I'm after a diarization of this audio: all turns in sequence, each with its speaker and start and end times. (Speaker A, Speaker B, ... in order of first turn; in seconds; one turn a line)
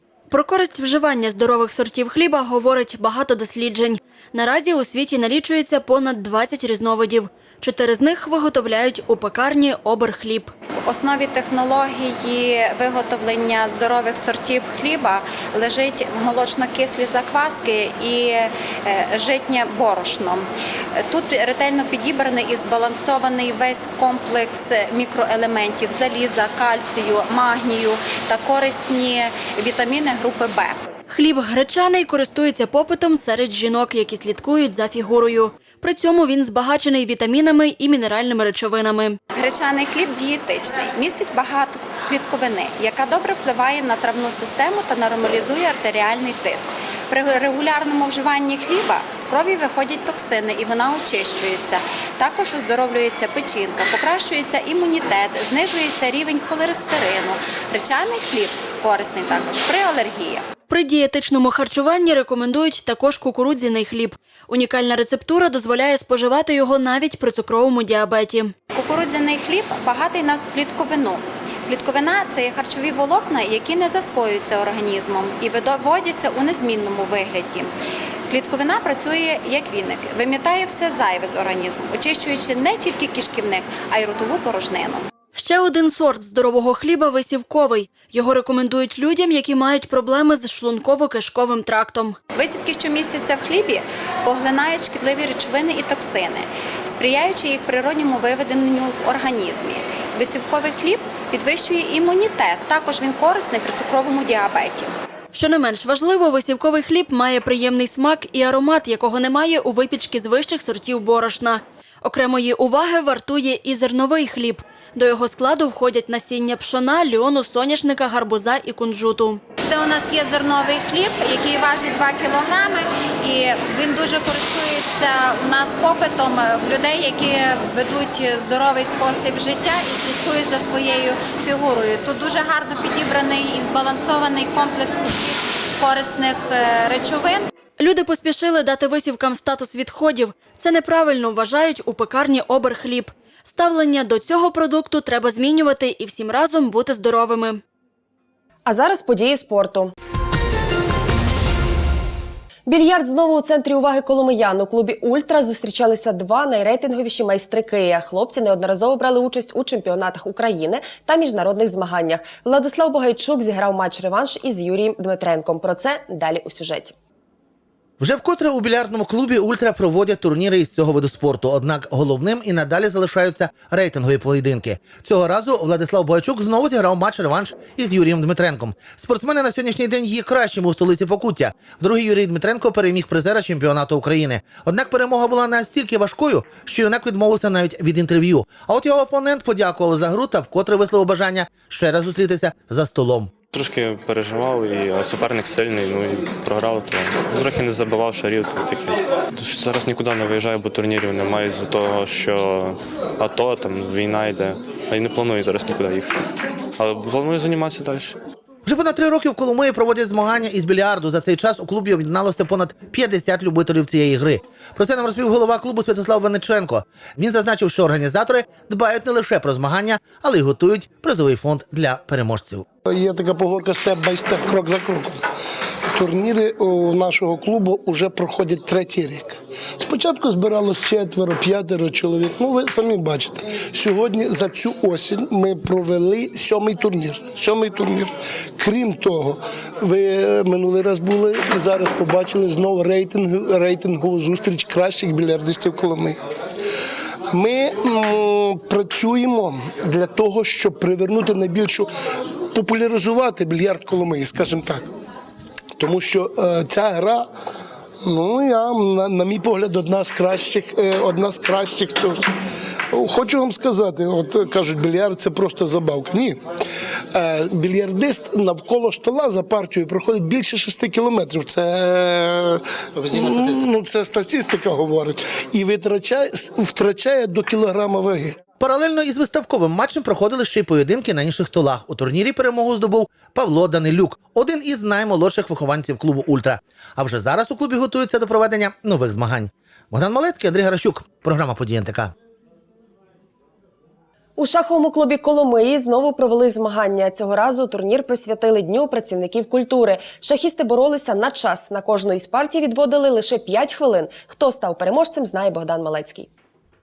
Speaker A: 0.3-10.5
Speaker B: 10.8-20.5
Speaker B: 21.0-30.8
Speaker A: 31.1-39.2
Speaker B: 39.4-60.5
Speaker A: 60.7-68.5
Speaker B: 68.7-77.7
Speaker B: 78.3-85.1
Speaker A: 85.3-92.2
Speaker B: 92.3-104.9
Speaker A: 105.3-119.4
Speaker B: 119.6-137.5
Speaker A: 137.8-147.6
Speaker C: 148.7-149.9
Speaker C: 152.7-166.9
Speaker D: 168.0-193.3
Speaker E: 193.5-202.7
Speaker E: 203.2-206.0
Speaker E: 206.8-208.1
Speaker D: 208.7-222.6
Speaker F: 222.9-225.2
Speaker F: 225.9-246.2
Speaker F: 247.3-251.9
Speaker F: 252.5-254.9
Speaker F: 255.8-257.2
Speaker F: 258.0-262.2
Speaker F: 262.9-266.4
Speaker F: 267.1-278.4
Speaker D: 273.2-273.6
Speaker D: 278.6-292.1
Speaker C: 294.4-306.3